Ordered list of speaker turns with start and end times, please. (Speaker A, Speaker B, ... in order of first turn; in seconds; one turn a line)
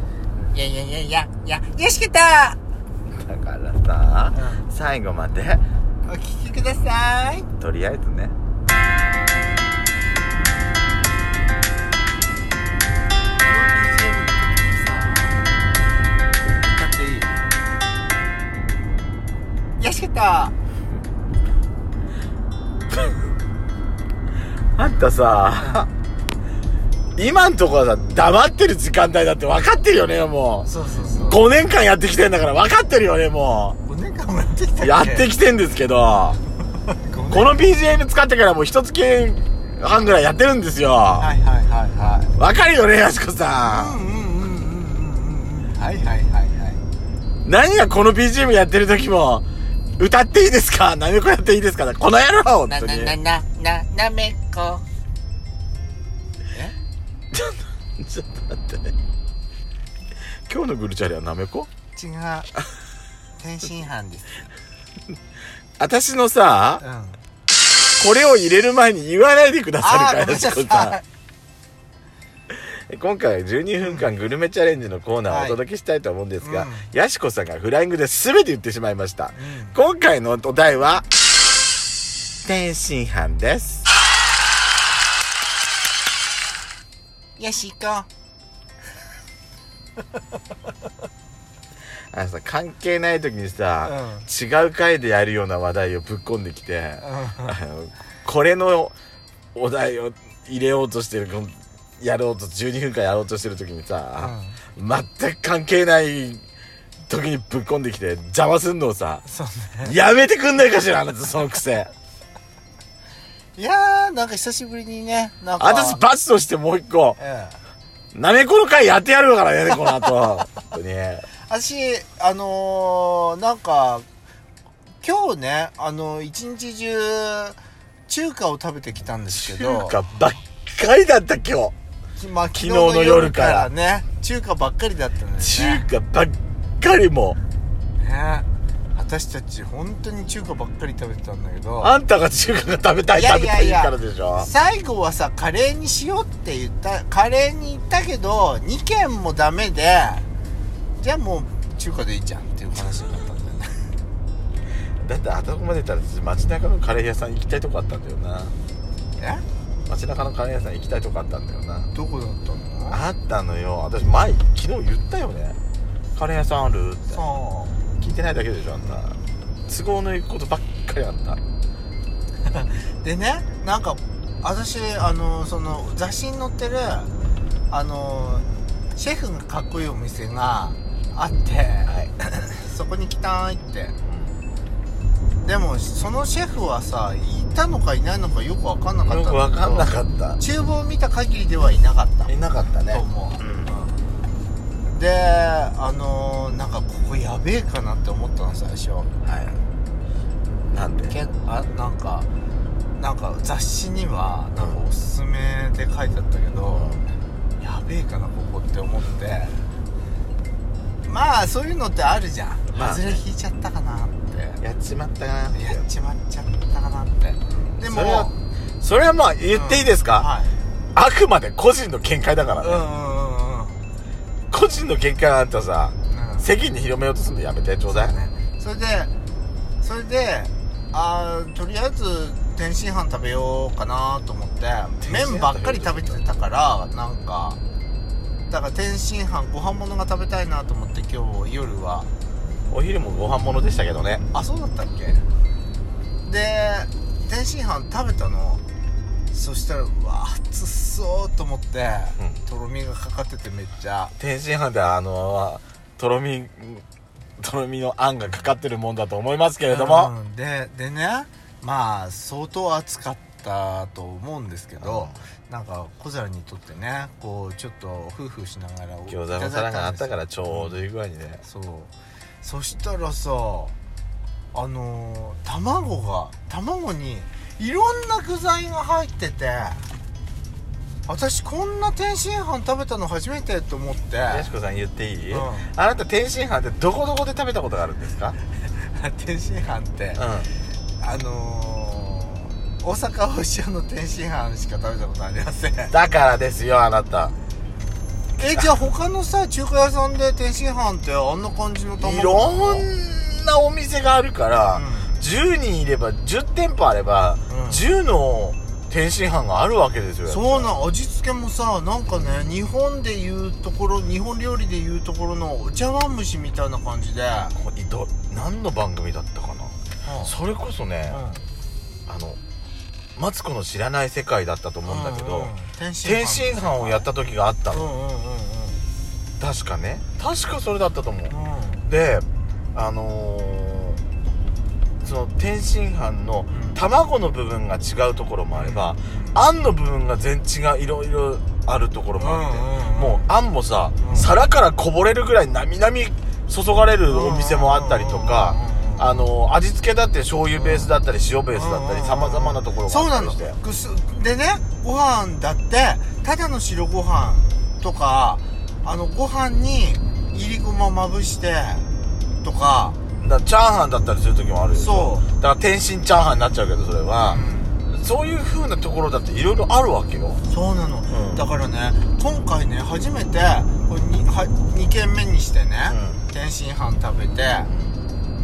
Speaker A: 0.5-2.6
Speaker B: 3.1-5.6
Speaker A: 4.3-4.6
Speaker A: 6.0-7.5
Speaker B: 7.5-8.3
Speaker A: 13.4-15.5
Speaker A: 16.6-17.4
Speaker A: 19.8-20.5
Speaker B: 24.8-25.9
Speaker B: 27.1-30.7
Speaker A: 30.6-31.4
Speaker B: 31.3-33.8
Speaker A: 33.9-35.3
Speaker B: 34.8-36.4
Speaker A: 36.7-37.6
Speaker B: 37.3-41.3
Speaker A: 41.1-42.3
Speaker B: 42.4-44.0
Speaker A: 43.6-46.8
Speaker B: 47.4-49.4
Speaker B: 50.0-53.1
Speaker A: 52.5-54.9
Speaker B: 57.3-58.9
Speaker B: 60.5-61.7
Speaker A: 61.9-62.5
Speaker A: 63.4-64.5
Speaker B: 65.8-66.8
Speaker A: 66.8-67.2
Speaker B: 68.0-71.0
Speaker A: 69.8-71.0
Speaker B: 72.5-81.0
Speaker A: 73.8-74.1
Speaker A: 75.3-75.6
Speaker A: 76.4-76.9
Speaker A: 79.3-79.8
Speaker B: 82.4-83.9
Speaker A: 87.4-88.1
Speaker B: 92.1-98.9
Speaker A: 93.8-94.3
Speaker A: 97.0-97.5
Speaker B: 99.5-106.4
Speaker A: 104.2-104.6
Speaker B: 107.1-109.2
Speaker A: 109.2-110.0
Speaker B: 109.8-111.9
Speaker A: 113.5-116.0
Speaker B: 115.6-117.2
Speaker A: 117.2-117.6
Speaker B: 118.1-121.3
Speaker A: 121.4-124.0
Speaker A: 125.0-130.0
Speaker B: 129.3-131.7
Speaker A: 132.2-135.8
Speaker B: 132.5-133.7
Speaker B: 135.4-137.4
Speaker A: 138.0-141.9
Speaker B: 141.8-144.5
Speaker A: 143.1-150.3
Speaker A: 151.0-153.9
Speaker B: 155.0-158.6
Speaker A: 159.2-159.4
Speaker B: 159.9-161.9
Speaker A: 161.9-163.0
Speaker B: 162.9-165.6
Speaker B: 166.1-167.2
Speaker A: 167.1-167.8
Speaker B: 168.0-171.4
Speaker A: 172.4-177.1
Speaker A: 177.7-183.9
Speaker B: 184.0-184.4
Speaker A: 185.4-192.3
Speaker B: 189.0-190.4
Speaker B: 192.3-193.7
Speaker A: 192.9-194.0
Speaker A: 194.9-199.1
Speaker B: 199.2-199.6
Speaker B: 200.7-201.2
Speaker A: 201.1-202.3
Speaker A: 202.9-207.0
Speaker B: 204.5-204.8
Speaker B: 206.7-207.1
Speaker A: 207.6-209.7
Speaker A: 211.0-214.6
Speaker B: 212.7-213.2
Speaker B: 214.6-215.8
Speaker A: 215.5-218.3
Speaker B: 217.5-220.3
Speaker A: 219.5-220.6
Speaker B: 220.9-222.8
Speaker A: 222.6-223.8
Speaker B: 224.5-228.2
Speaker A: 226.1-226.5
Speaker A: 227.9-229.1
Speaker A: 229.8-237.6
Speaker B: 235.0-236.2
Speaker A: 238.5-242.1
Speaker B: 242.7-244.2
Speaker A: 244.3-245.2
Speaker A: 246.2-248.6
Speaker A: 249.3-254.1
Speaker B: 254.2-256.8
Speaker B: 257.4-260.1
Speaker A: 259.7-270.8
Speaker B: 264.8-265.2
Speaker B: 269.1-271.4
Speaker A: 271.4-273.7
Speaker A: 274.5-279.9
Speaker A: 281.1-284.5
Speaker B: 284.3-288.4
Speaker A: 285.3-285.7
Speaker A: 288.6-290.2
Speaker B: 290.2-290.5
Speaker A: 291.0-295.9
Speaker B: 295.9-297.3
Speaker A: 298.4-302.9
Speaker B: 302.0-310.7
Speaker A: 304.7-305.2
Speaker A: 307.5-307.8
Speaker A: 310.2-317.6
Speaker B: 317.5-321.2
Speaker A: 320.0-320.3
Speaker A: 321.1-321.4
Speaker B: 322.1-322.4
Speaker B: 323.1-325.5
Speaker A: 324.8-327.1
Speaker B: 326.0-327.9
Speaker A: 327.7-328.8
Speaker B: 329.4-331.3
Speaker A: 331.3-331.9
Speaker B: 331.8-334.0
Speaker B: 335.0-353.6
Speaker A: 336.5-336.8
Speaker A: 338.5-339.4
Speaker A: 342.2-343.3
Speaker A: 344.0-344.3
Speaker A: 347.1-349.3
Speaker A: 350.6-350.9
Speaker A: 351.5-361.9
Speaker A: 362.4-363.0
Speaker B: 363.2-370.4
Speaker A: 364.7-365.3
Speaker A: 367.2-367.8
Speaker A: 370.5-377.7
Speaker B: 371.1-371.4
Speaker B: 375.9-376.2
Speaker B: 377.7-378.0